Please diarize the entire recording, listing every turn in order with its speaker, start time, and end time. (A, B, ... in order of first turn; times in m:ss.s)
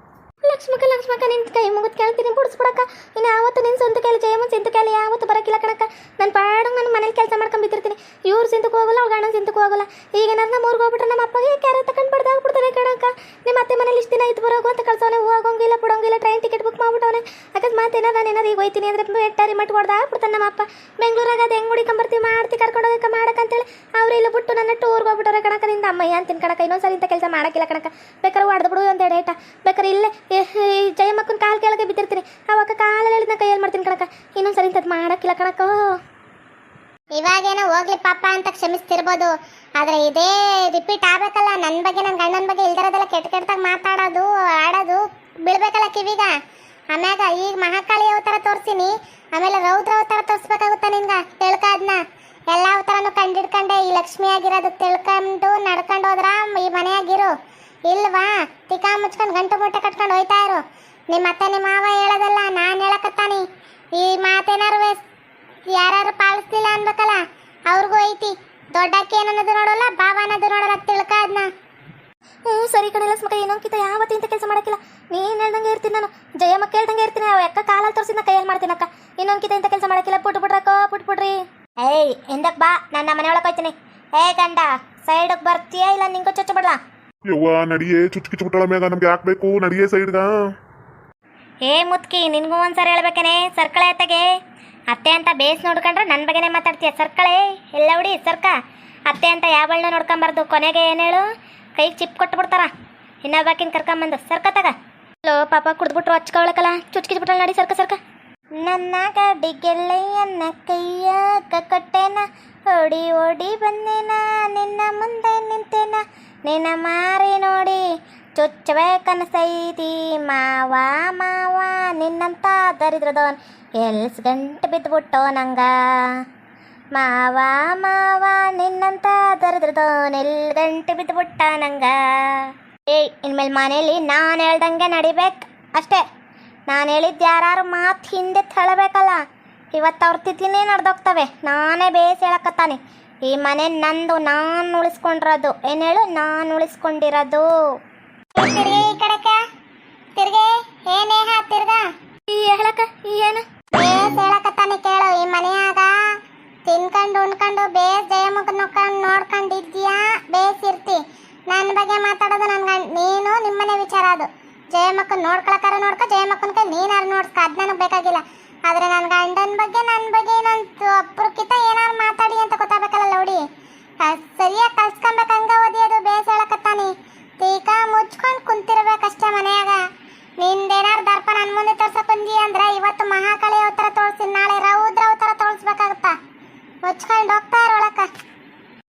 0:00.4-0:35.8 A
0:37.2-0:46.3 B
0:46.9-0:57.3 B
0:57.9-1:03.4 B
1:04.0-1:05.0 B
1:05.7-1:11.5 B
1:12.5-1:26.8 A
1:27.3-1:30.3 C
1:31.6-1:34.3 A
1:34.9-1:38.6 A
1:39.1-1:41.2 A
1:41.8-1:42.7 A
1:43.2-1:48.0 A
1:48.6-1:57.8 A
1:58.4-2:06.2 A
2:06.9-2:16.0 A
2:16.7-2:19.2 A
2:19.7-2:27.5 A
2:28.4-2:29.4 B
2:30.2-2:31.8 B
2:32.3-2:33.4 A
2:33.8-2:35.9 B
2:36.7-2:53.4 B
2:54.0-2:59.8 B
3:00.4-3:06.1 B
3:06.9-3:08.1 B